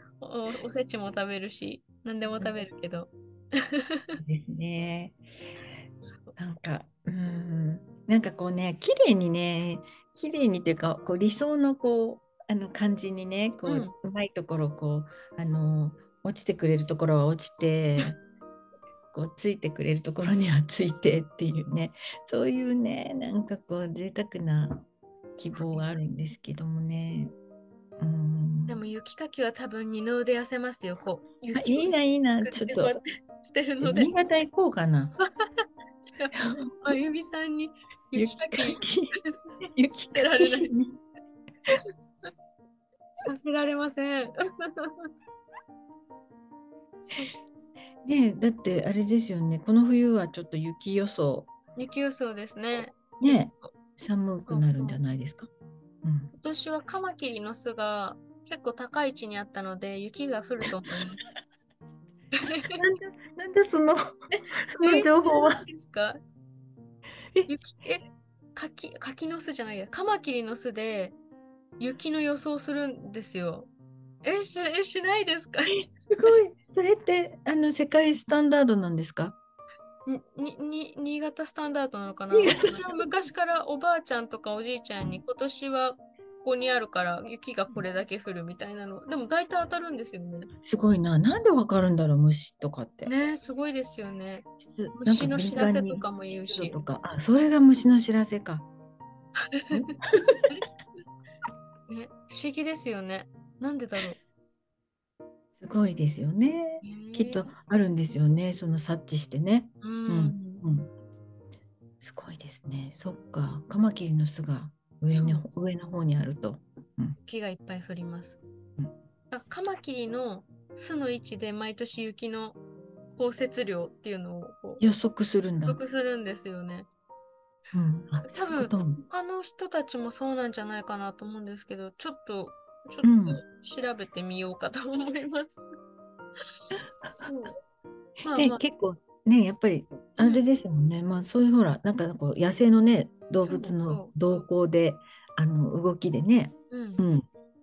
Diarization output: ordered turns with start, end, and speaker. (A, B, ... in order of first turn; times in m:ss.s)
0:00.2-0:04.2 A
0:04.2-0:05.2 B
0:06.0-0:06.4 A
0:06.4-0:18.2 B
0:13.6-0:13.9 A
0:19.1-0:24.9 B
0:25.4-0:27.3 B
0:25.5-0:26.0 A
0:28.0-0:28.8 B
0:28.7-0:34.1 A
0:31.5-0:33.0 B
0:33.8-0:35.2 B
0:36.1-0:39.3 A
0:36.3-0:37.0 B
0:38.2-0:41.0 B
0:40.1-0:40.7 A
0:41.7-0:42.3 A
0:43.2-0:45.1 A
0:47.0-0:47.6 A
0:48.0-0:51.5 B
0:51.8-0:53.7 A
0:52.8-0:55.5 B
0:54.4-0:55.0 A
0:56.0-0:56.3 B
0:56.4-1:01.2 A
1:02.3-1:02.8 A
1:02.8-1:05.6 B
1:04.4-1:06.2 A
1:07.5-1:11.2 A
1:11.8-1:13.7 A
1:14.2-1:16.4 A
1:15.7-1:19.4 B
1:20.1-1:30.5 A
1:22.3-1:23.1 B
1:30.6-1:33.1 B
1:33.1-1:36.8 A
1:34.6-1:38.7 B
1:39.5-1:40.7 A
1:39.7-1:40.5 B
1:41.9-1:44.2 A
1:45.6-1:50.9 B
1:46.8-1:47.5 A
1:49.8-1:50.6 A
1:52.0-1:57.2 B
1:55.1-1:55.5 A
1:57.3-1:58.4 A
1:59.3-2:02.6 A
2:03.1-2:04.8 A
2:04.8-2:05.8 B
2:05.7-2:06.9 A
2:07.7-2:09.0 B
2:08.2-2:15.6 A
2:13.0-2:13.4 B
2:16.7-2:17.5 B
2:17.1-2:17.6 A
2:18.3-2:18.6 A
2:18.3-2:27.2 B
2:20.2-2:20.4 A
2:23.4-2:24.4 A
2:26.7-2:27.0 A